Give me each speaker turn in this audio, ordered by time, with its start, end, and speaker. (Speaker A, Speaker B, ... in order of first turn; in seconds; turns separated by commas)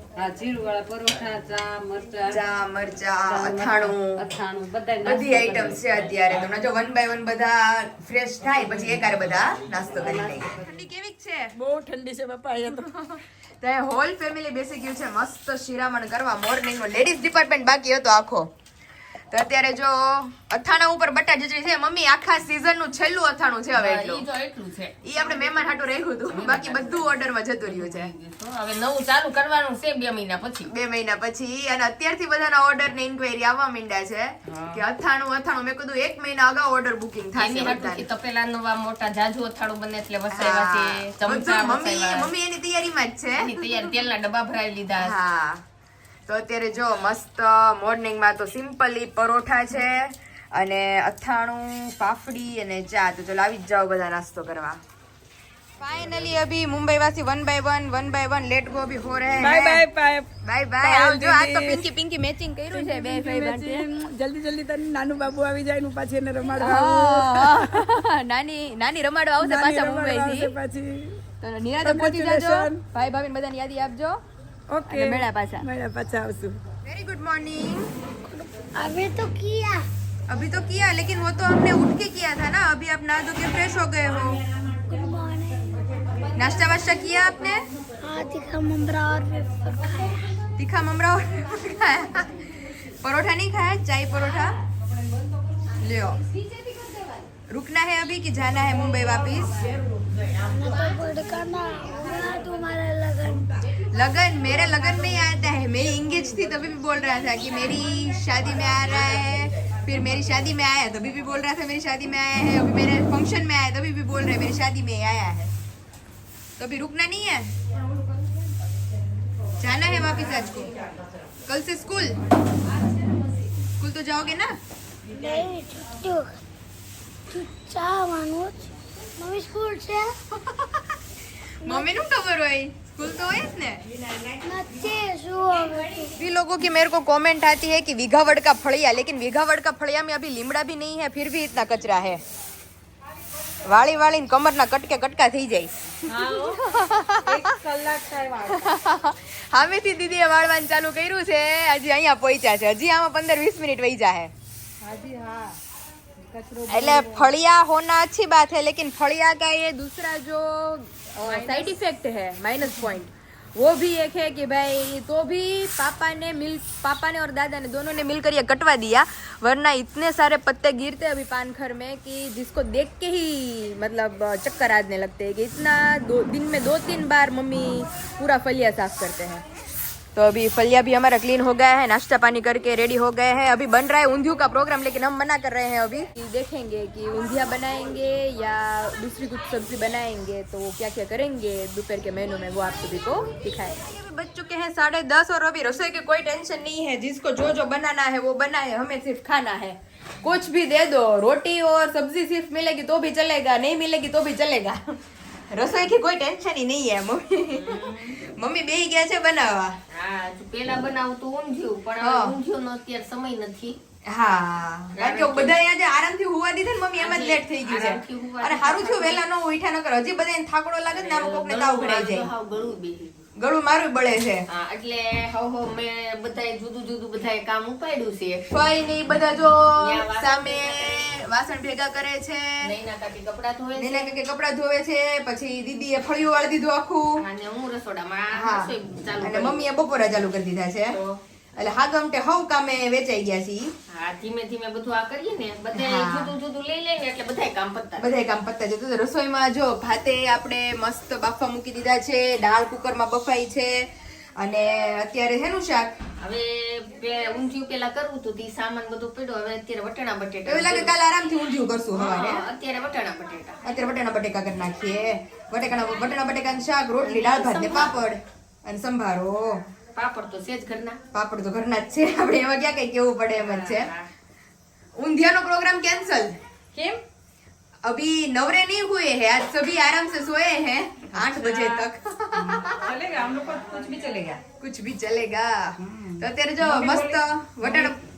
Speaker A: 0.2-2.4, Speaker B: 2.3-4.2, Speaker A: 3.3-6.0, Speaker B: 5.0-11.5, Speaker A: 10.0-10.5, Speaker C: 11.5-12.9, Speaker B: 13.0-18.5, Speaker B: 19.3-24.2, Speaker D: 23.8-25.7, Speaker B: 25.0-28.1, Speaker D: 26.3-30.7, Speaker B: 30.7-38.1, Speaker D: 34.5-34.8, Speaker D: 37.4-42.3, Speaker B: 40.3-43.6, Speaker D: 43.4-45.2, Speaker B: 45.0-45.6, Speaker B: 46.3-54.8, Speaker B: 55.8-59.8, Speaker C: 59.4-60.3, Speaker B: 60.4-63.8, Speaker C: 60.8-61.9, Speaker C: 62.7-68.0, Speaker B: 66.6-70.5, Speaker C: 69.4-71.2, Speaker B: 71.4-74.2, Speaker C: 71.8-72.8, Speaker C: 74.7-76.6, Speaker B: 74.9-75.7, Speaker B: 76.8-77.9, Speaker E: 78.3-79.9, Speaker B: 80.3-84.4, Speaker E: 84.9-85.9, Speaker B: 86.4-87.6, Speaker E: 88.0-90.4, Speaker B: 90.6-92.3, Speaker B: 93.0-94.5, Speaker B: 95.8-96.2, Speaker B: 97.5-99.5, Speaker E: 100.4-103.5, Speaker B: 103.9-115.5, Speaker B: 116.6-117.5, Speaker B: 119.6-120.7, Speaker B: 121.5-122.2, Speaker B: 123.8-124.6, Speaker E: 125.2-126.3, Speaker E: 127.3-130.1, Speaker E: 131.6-132.0, Speaker B: 131.6-133.8, Speaker E: 134.4-136.1, Speaker B: 136.2-142.2, Speaker B: 143.7-147.4, Speaker C: 146.1-146.6, Speaker C: 147.3-148.6, Speaker B: 148.6-154.3, Speaker C: 154.8-155.6, Speaker C: 156.3-157.4, Speaker B: 156.7-179.4, Speaker C: 161.2-161.7, Speaker B: 180.2-204.9, Speaker B: 205.5-209.8, Speaker D: 207.6-208.2, Speaker D: 209.9-213.8, Speaker B: 212.0-212.4, Speaker B: 214.1-222.3, Speaker D: 215.0-215.6, Speaker D: 217.0-219.2, Speaker D: 221.0-223.1, Speaker B: 223.4-224.4, Speaker D: 224.5-228.5, Speaker B: 228.5-232.7, Speaker D: 229.8-231.2, Speaker D: 232.6-234.2, Speaker B: 233.8-237.2, Speaker D: 237.2-239.7, Speaker B: 238.3-241.0, Speaker D: 240.9-241.2, Speaker B: 241.6-243.7, Speaker D: 243.9-248.1, Speaker B: 245.8-246.3, Speaker B: 248.0-255.9, Speaker D: 256.2-260.9, Speaker B: 260.5-262.4, Speaker D: 262.0-263.7, Speaker B: 263.6-269.6, Speaker D: 267.0-268.0, Speaker D: 269.9-271.0, Speaker B: 271.1-273.9, Speaker D: 273.7-274.0, Speaker B: 275.0-276.4, Speaker A: 276.8-277.0, Speaker B: 277.8-282.9, Speaker A: 281.1-284.4, Speaker B: 284.6-288.0, Speaker A: 285.8-287.9